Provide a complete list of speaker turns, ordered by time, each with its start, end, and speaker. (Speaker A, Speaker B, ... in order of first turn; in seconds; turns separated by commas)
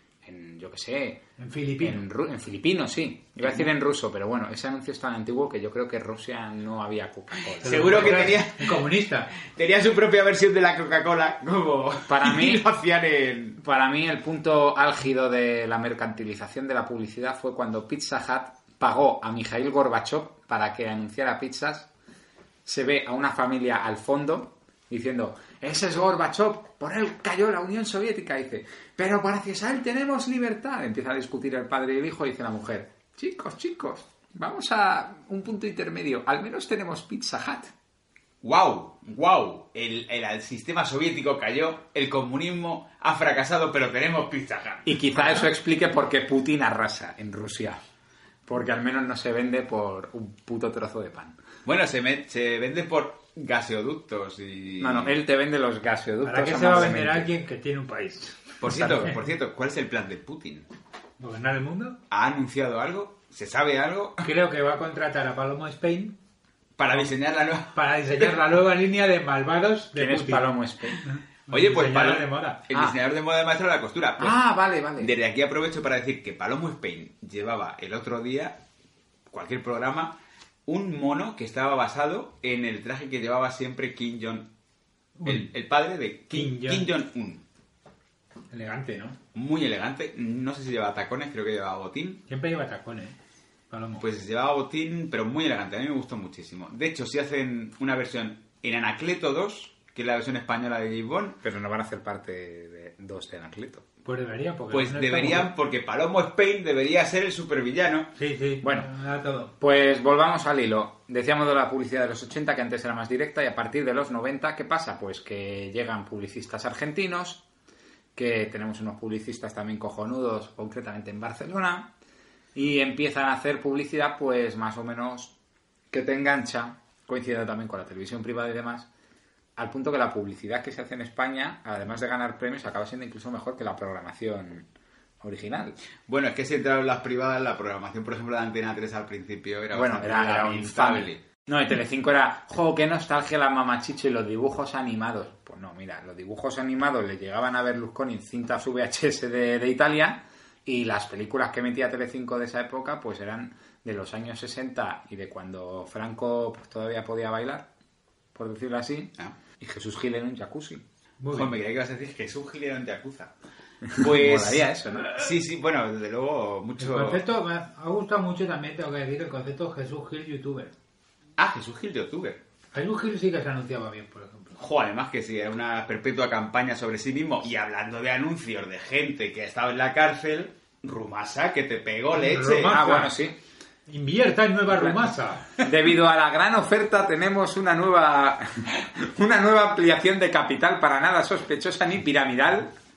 Speaker A: 0.2-1.2, Speaker B: 1.4-2.0, Speaker A: 1.8-8.4, Speaker C: 7.6-8.8, Speaker B: 7.6-9.3, Speaker C: 9.4-13.6, Speaker A: 12.1-12.6, Speaker A: 13.6-21.9, Speaker A: 22.6-37.7, Speaker C: 38.4-45.3, Speaker A: 44.9-47.8, Speaker A: 48.5-51.4, Speaker C: 51.6-55.1, Speaker A: 54.8-57.3, Speaker B: 56.2-59.1, Speaker C: 58.6-60.7, Speaker A: 58.7-59.1, Speaker B: 61.2-62.0, Speaker C: 62.1-64.3, Speaker B: 64.2-66.2, Speaker C: 66.8-68.3, Speaker B: 67.7-72.6, Speaker A: 69.9-71.0, Speaker C: 71.5-74.4, Speaker A: 74.2-75.1, Speaker C: 75.0-78.6, Speaker C: 79.3-84.5, Speaker B: 85.2-85.5, Speaker C: 85.2-87.4, Speaker B: 86.3-86.8, Speaker B: 88.5-89.2, Speaker C: 89.3-92.2, Speaker B: 92.3-93.2, Speaker B: 93.7-94.0, Speaker C: 94.0-101.4, Speaker A: 101.4-103.8, Speaker B: 104.0-105.5, Speaker C: 104.7-108.1, Speaker B: 108.2-109.5, Speaker A: 108.6-108.9, Speaker A: 109.6-117.4, Speaker A: 118.2-121.9, Speaker A: 122.5-125.3, Speaker A: 125.9-128.9, Speaker A: 129.6-134.7, Speaker A: 135.2-135.8, Speaker C: 136.1-141.2, Speaker A: 139.7-157.7, Speaker A: 158.3-160.8, Speaker B: 161.2-161.5, Speaker C: 161.3-163.3, Speaker A: 163.8-165.3, Speaker C: 164.0-167.2, Speaker B: 166.8-170.7, Speaker C: 171.4-172.4, Speaker B: 172.7-174.6, Speaker C: 174.6-182.8, Speaker B: 182.1-183.1, Speaker A: 182.6-183.4, Speaker B: 183.9-185.5, Speaker A: 185.6-192.7